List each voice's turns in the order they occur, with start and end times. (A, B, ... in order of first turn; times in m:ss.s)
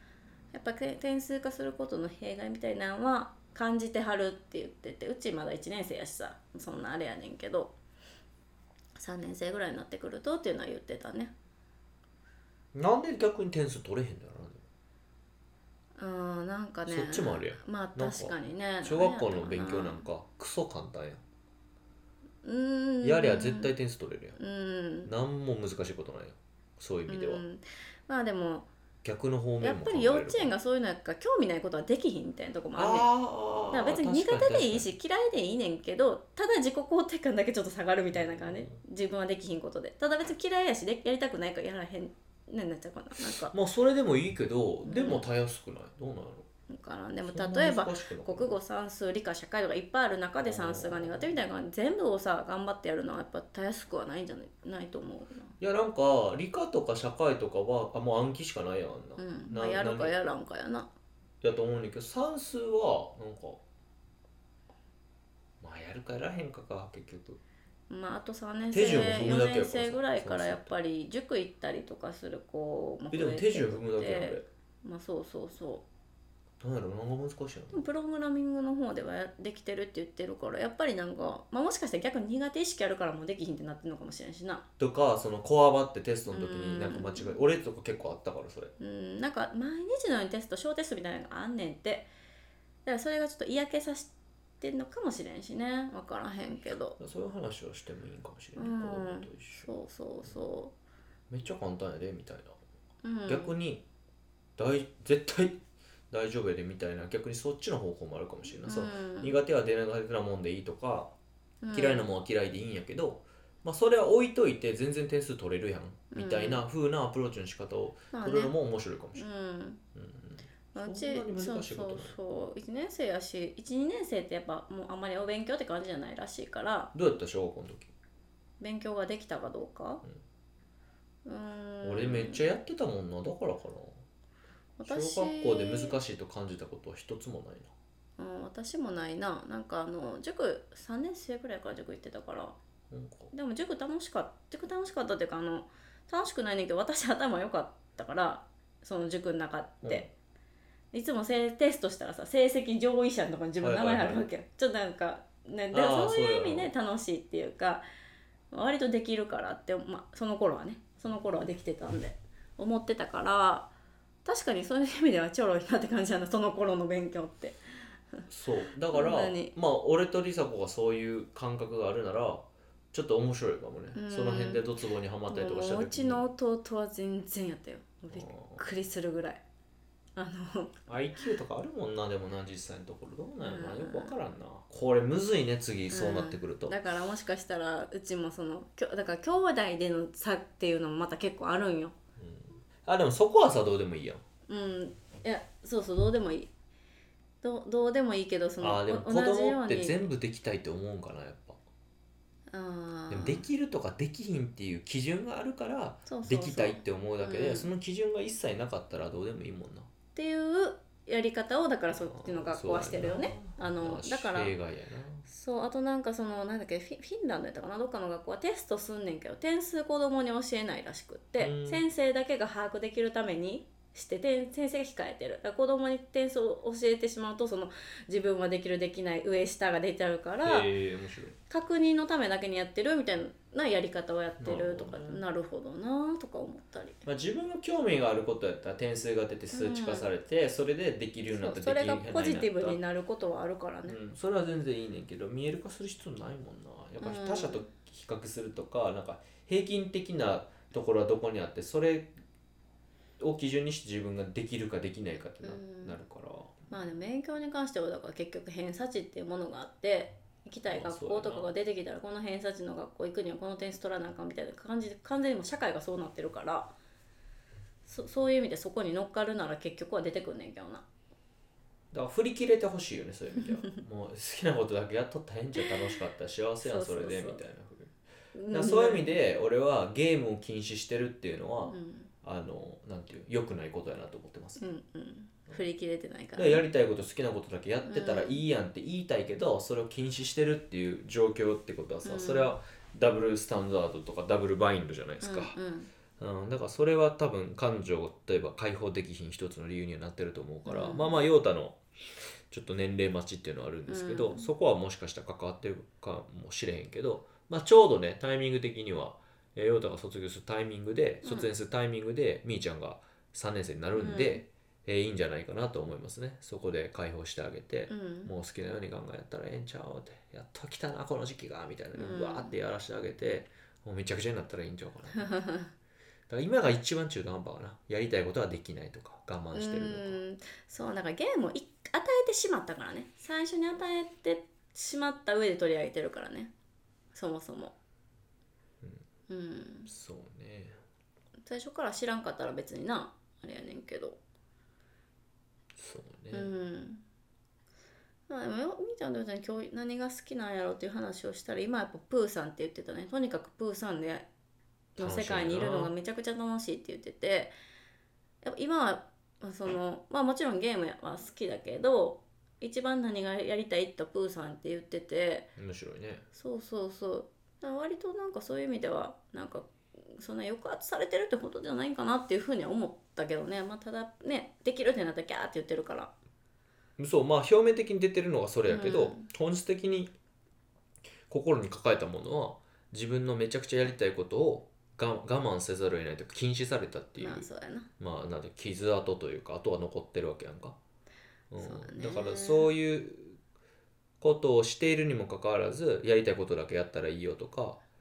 0:00.5-0:07.7 A
0:08.9-0:11.3 A
0:12.7-0:14.6 B
0:16.0-0:20.1 A
0:16.8-0:21.2 B
0:22.4-0:23.7 A
0:23.0-0:24.4 B
0:24.4-0:25.1 A
0:25.0-0:27.4 B
0:27.1-0:28.7 A
0:29.0-0:30.5 B
0:29.6-0:33.1 A
0:32.8-0:34.9 B
0:33.7-0:43.5 A
0:38.1-0:38.8 B
0:43.2-0:46.4 B
0:44.8-0:45.2 A
0:46.7-0:55.5 A
0:47.2-0:48.6 B
0:50.4-0:51.4 B
0:55.6-1:00.1 B
0:59.2-1:00.9 A
1:01.4-1:03.6 B
1:05.6-1:07.4 B
1:07.9-1:15.8 A
1:08.7-1:10.8 B
1:13.1-1:14.4 B
1:16.6-1:17.8 B
1:17.7-1:24.6 A
1:24.8-1:28.7 B
1:26.3-1:27.4 A
1:28.8-1:32.1 A
1:32.8-1:37.0 A
1:37.0-1:39.7 B
1:38.6-1:40.7 A
1:41.3-1:42.6 B
1:43.0-1:43.5 A
1:43.3-1:43.8 B
1:44.6-1:51.1 B
1:48.6-1:49.4 A
1:51.6-1:52.1 A
1:51.7-1:59.2 B
1:56.1-1:56.6 A
1:58.1-1:58.5 A
1:59.2-1:59.8 A
1:59.9-2:02.2 B
2:00.7-2:06.9 A
2:06.9-2:07.9 B
2:08.6-2:10.0 A
2:11.2-2:12.4 A
2:11.8-2:14.0 B
2:14.8-2:16.0 A
2:14.8-2:17.7 B
2:18.2-2:22.6 A
2:22.9-2:23.3 B
2:23.3-2:30.1 A
2:29.8-2:30.1 B
2:30.9-2:37.8 A
2:33.6-2:34.2 B
2:35.7-2:36.7 B
2:38.5-2:43.7 A
2:44.2-2:47.6 A
2:48.3-2:56.2 B
2:48.9-2:49.5 A
2:53.9-2:54.6 A
2:55.3-2:59.4 A
2:58.1-2:58.6 B
3:00.2-3:00.7 A
3:00.9-3:06.8 B
3:03.4-3:04.2 A
3:05.9-3:11.9 A
3:12.2-3:14.2 B
3:14.5-3:16.5 A
3:17.4-3:20.0 A
3:18.6-3:21.6 B
3:22.5-3:23.4 A
3:23.1-3:29.9 B
3:26.1-3:27.7 A
3:30.1-3:34.5 A
3:31.9-3:35.3 B
3:35.3-3:50.7 A
3:41.4-3:41.8 B
3:50.4-3:51.4 B
3:51.5-3:57.0 A
3:54.4-3:55.2 B
3:57.0-4:02.8 B
3:59.5-4:00.1 A
4:01.3-4:04.0 A
4:03.9-4:12.1 B
4:07.0-4:07.6 A
4:13.2-4:16.7 B
4:15.4-4:16.0 A
4:16.7-4:26.7 A
4:20.7-4:21.5 B
4:27.8-4:30.8 A
4:31.9-4:37.9 B
4:33.4-4:33.6 A
4:36.6-4:37.4 A
4:38.3-4:39.2 A
4:38.5-4:44.6 B
4:41.7-4:42.1 A
4:44.6-4:46.6 A
4:46.3-4:55.6 B
4:47.8-4:48.4 A
4:52.0-4:52.5 A
4:55.2-4:55.9 A
4:56.2-5:01.8 B
5:00.6-5:01.2 A
5:02.5-5:25.4 B
5:03.9-5:04.5 A
5:11.2-5:11.5 A
5:14.0-5:14.4 A
5:17.9-5:18.3 A
5:21.9-5:22.5 A
5:25.2-5:25.7 A
5:26.3-5:30.2 B
5:29.5-5:36.5 A
5:37.1-5:37.7 A
5:39.3-5:39.9 A
5:39.8-5:40.8 B
5:41.4-5:44.2 A
5:45.8-5:46.5 B
5:46.3-5:47.0 A
5:48.3-5:54.3 A
5:55.0-5:57.5 A
5:55.0-5:55.9 B
5:58.4-6:05.5 A
6:05.6-6:06.2 B
6:06.3-6:16.1 A
6:17.0-6:20.1 B
6:18.7-6:19.3 A
6:21.3-6:27.5 B
6:27.2-6:27.9 A
6:28.0-6:30.8 B
6:31.5-6:33.4 B
6:31.6-6:32.7 A
6:34.2-6:37.8 B